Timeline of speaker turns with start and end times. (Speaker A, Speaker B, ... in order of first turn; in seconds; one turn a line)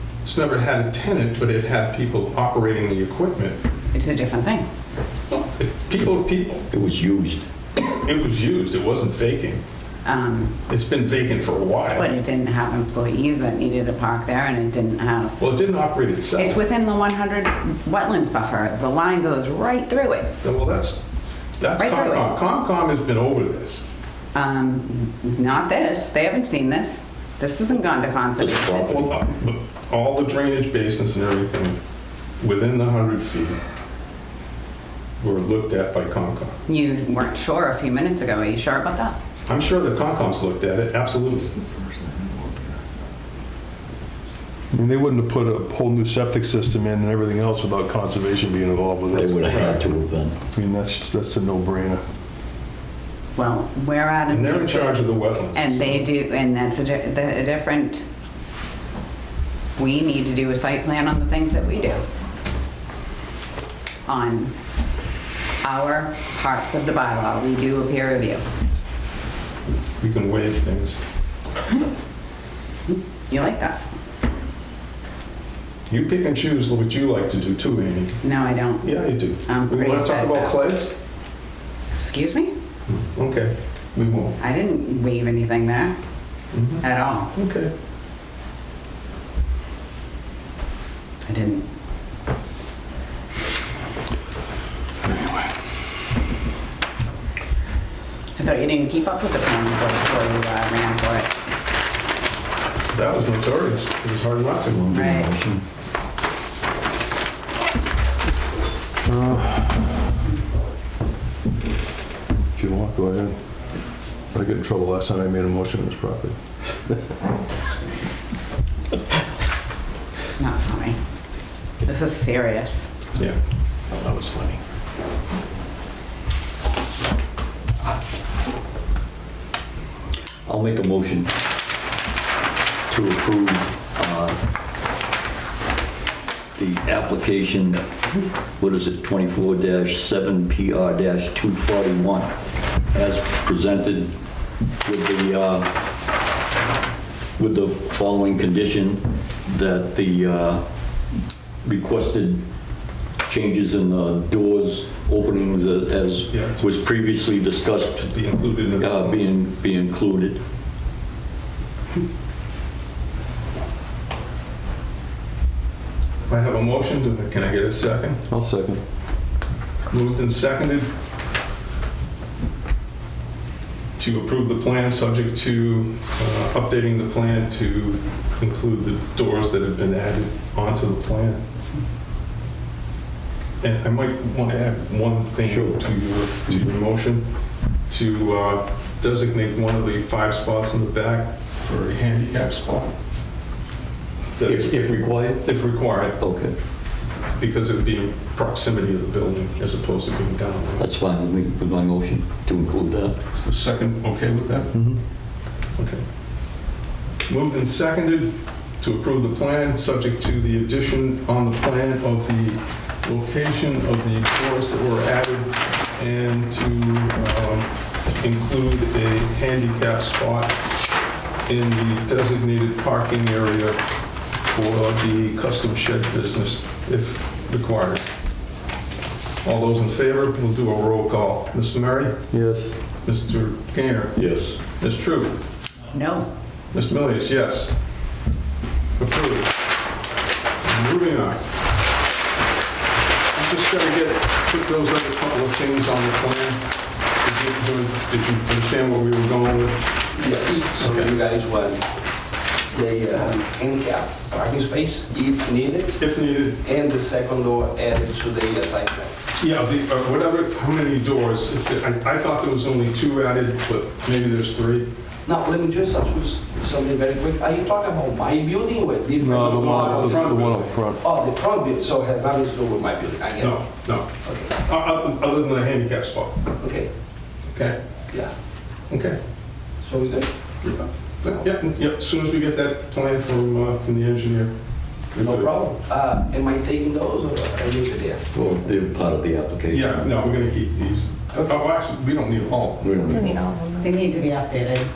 Speaker A: 0.2-3.6
Speaker B: 3.9-4.7
Speaker A: 5.3-6.7
Speaker C: 6.7-7.5
Speaker A: 7.9-9.6
Speaker B: 10.1-10.6
Speaker A: 10.7-12.1
Speaker B: 11.9-15.4
Speaker A: 15.4-16.6
Speaker B: 16.4-20.3
Speaker A: 20.4-21.0
Speaker A: 21.6-23.8
Speaker B: 21.8-22.3
Speaker B: 24.3-29.2
Speaker C: 28.4-29.1
Speaker A: 28.8-31.8
Speaker A: 32.4-33.6
Speaker A: 35.2-36.5
Speaker B: 36.7-39.1
Speaker A: 39.5-41.8
Speaker D: 44.7-49.7
Speaker C: 49.1-50.4
Speaker A: 49.5-49.8
Speaker D: 50.5-52.0
Speaker B: 53.4-58.0
Speaker A: 54.3-56.1
Speaker B: 59.8-62.0
Speaker B: 64.1-64.5
Speaker B: 65.6-68.4
Speaker A: 70.0-71.0
Speaker B: 72.9-73.8
Speaker A: 75.9-78.2
Speaker B: 78.2-80.6
Speaker A: 78.8-80.9
Speaker B: 81.9-82.5
Speaker A: 82.9-84.4
Speaker B: 84.4-86.0
Speaker A: 86.5-87.7
Speaker B: 86.8-87.3
Speaker B: 91.3-91.7
Speaker B: 98.4-101.3
Speaker A: 102.9-104.9
Speaker C: 104.7-105.7
Speaker B: 104.9-105.3
Speaker D: 109.0-109.8
Speaker D: 112.5-113.4
Speaker D: 114.3-117.0
Speaker B: 120.2-121.0
Speaker B: 121.8-122.9
Speaker D: 124.1-124.6
Speaker C: 130.4-131.3
Speaker C: 132.9-134.4
Speaker C: 136.6-137.8
Speaker C: 138.6-142.3
Speaker C: 142.9-144.1
Speaker C: 144.8-145.7
Speaker C: 147.4-150.6
Speaker C: 151.6-152.4
Speaker C: 153.2-158.1
Speaker A: 156.3-156.7
Speaker A: 157.9-159.2
Speaker C: 158.8-160.4
Speaker A: 166.3-168.2
Speaker D: 168.3-168.8
Speaker A: 169.9-170.9
Speaker A: 174.0-181.4
Speaker A: 183.6-187.3
Speaker C: 185.4-185.9
Speaker A: 187.9-192.9
Speaker A: 194.4-196.2
Speaker C: 194.4-195.5
Speaker C: 196.2-196.6
Speaker A: 197.4-200.8
Speaker C: 200.8-203.2
Speaker A: 203.3-204.8
Speaker A: 205.8-206.0
Speaker A: 207.3-220.6
Speaker A: 221.5-223.8
Speaker A: 224.4-228.0
Speaker A: 229.4-232.2
Speaker D: 232.3-232.8
Speaker A: 233.0-235.4
Speaker C: 234.1-234.6
Speaker B: 235.9-236.3
Speaker A: 236.7-237.7
Speaker A: 239.0-239.5
Speaker A: 240.6-241.4
Speaker A: 243.3-249.9
Speaker E: 250.2-251.8
Speaker A: 250.7-251.1
Speaker E: 252.7-256.0
Speaker A: 256.0-256.6
Speaker E: 256.6-259.1
Speaker A: 259.4-264.9
Speaker E: 265.2-273.6
Speaker D: 269.2-271.0
Speaker A: 269.4-270.7
Speaker A: 273.4-276.5
Speaker E: 274.2-274.5
Speaker E: 276.6-276.9
Speaker A: 277.5-277.8
Speaker A: 278.9-279.2
Speaker E: 279.8-280.3
Speaker A: 280.6-284.5
Speaker A: 285.1-285.5
Speaker E: 285.2-288.2
Speaker C: 288.3-290.1
Speaker A: 289.7-293.4
Speaker C: 292.8-293.4
Speaker B: 293.8-294.9